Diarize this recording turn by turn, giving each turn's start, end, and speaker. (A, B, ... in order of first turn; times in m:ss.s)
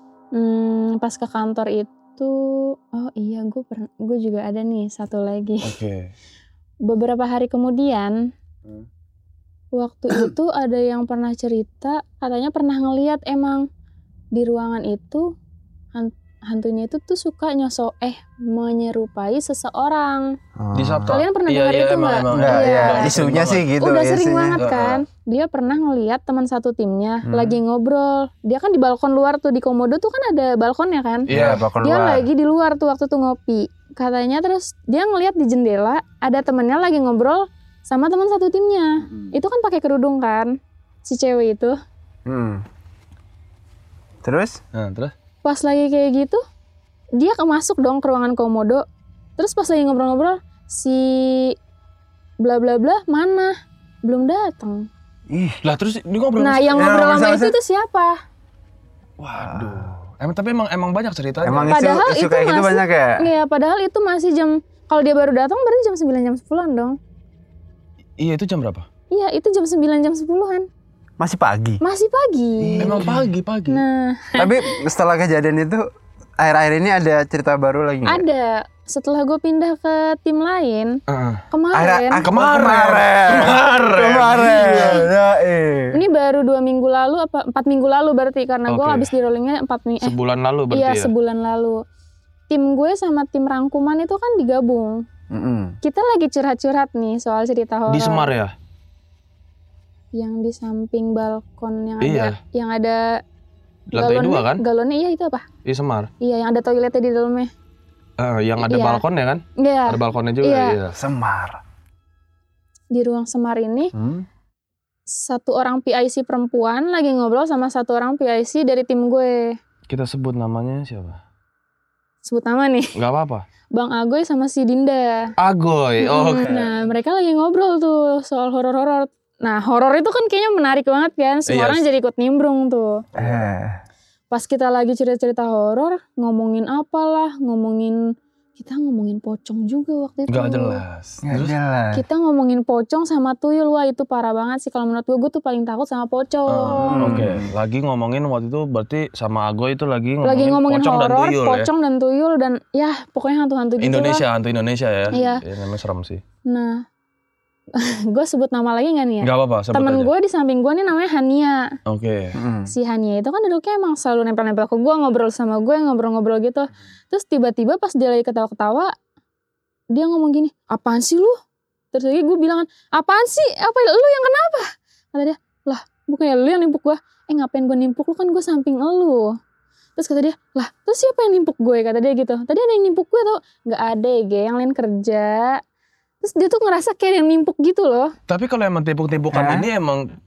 0:00.3-0:05.7 A
0:05.6-0:06.1 B
0:06.8-0:08.3 A
0:09.7-0:13.6 A
0:14.3-0:15.4 A
0:15.9-0:20.3 A
0:20.6-0:21.2 C
0:20.7-0:23.7 B
0:21.1-0:23.2 A
0:22.3-0:24.6 C
0:23.8-0:41.7 A
0:24.6-0:25.0 B
0:27.2-0:27.6 C
0:31.3-0:31.7 B
0:31.3-0:32.3 C
0:42.2-0:42.6 C
0:44.2-0:44.6 C
0:44.7-0:45.1 B
0:45.4-0:46.4 A
0:47.2-0:48.8 A
0:49.4-0:51.6 A
0:52.4-0:53.5 A
0:54.0-0:54.8 A
0:55.3-0:55.6 C
0:55.6-0:56.9 B
0:56.4-0:58.2 A
0:56.7-0:57.6 C
0:59.2-1:01.8 B
0:59.4-1:00.0 C
1:01.4-1:03.3 C
1:01.7-1:07.0 A
1:08.2-1:08.8 B
1:09.1-1:10.6 A
1:11.2-1:11.8 C
1:11.8-1:13.1 A
1:12.6-1:13.3 C
1:12.8-1:13.8 B
1:13.7-1:14.5 A
1:14.3-1:15.8 C
1:16.4-1:18.2 C
1:18.0-1:21.0 A
1:21.1-1:21.4 B
1:21.5-1:22.3 A
1:21.7-1:26.0 C
1:22.2-1:25.1 B
1:25.9-1:30.1 A
1:28.7-1:29.1 B
1:30.0-1:31.1 B
1:30.7-1:31.8 A
1:32.5-1:35.0 A
1:35.3-1:35.8 C
1:35.8-1:38.4 A
1:37.9-1:38.5 B
1:40.1-1:43.1 A
1:42.0-1:42.4 B
1:43.9-1:44.6 B
1:43.9-1:45.5 A
1:45.6-1:46.1 B
1:46.2-1:47.5 A
1:48.2-1:51.0 B
1:48.6-1:49.0 A
1:49.6-1:50.8 A
1:50.9-1:51.6 C
1:52.9-1:53.9 A
1:53.9-1:54.2 C
1:55.1-1:59.5 A
1:59.9-2:01.2 B
2:02.2-2:02.8 A
2:03.0-2:03.4 B
2:03.7-2:05.2 A
2:05.4-2:06.7 B
2:06.0-2:13.0 A
2:11.5-2:11.8 B
2:13.1-2:13.4 B
2:13.1-2:13.8 C
2:14.3-2:18.0 A
2:18.6-2:20.8 A
2:20.3-2:21.5 B
2:21.2-2:22.0 C
2:21.9-2:27.2 A
2:26.5-2:31.7 B
2:26.8-2:27.5 C
2:30.2-2:34.2 A
2:33.8-2:36.2 B
2:35.1-2:35.4 A
2:36.5-2:36.8 A
2:37.8-2:41.6 A
2:39.2-2:40.1 B
2:41.9-2:42.4 B
2:42.3-2:42.7 C
2:42.7-2:48.9 A
2:49.9-2:51.3 A
2:51.9-2:59.3 A
3:00.0-3:05.6 A
3:06.2-3:08.1 A
3:08.3-3:10.0 B
3:09.3-3:09.7 C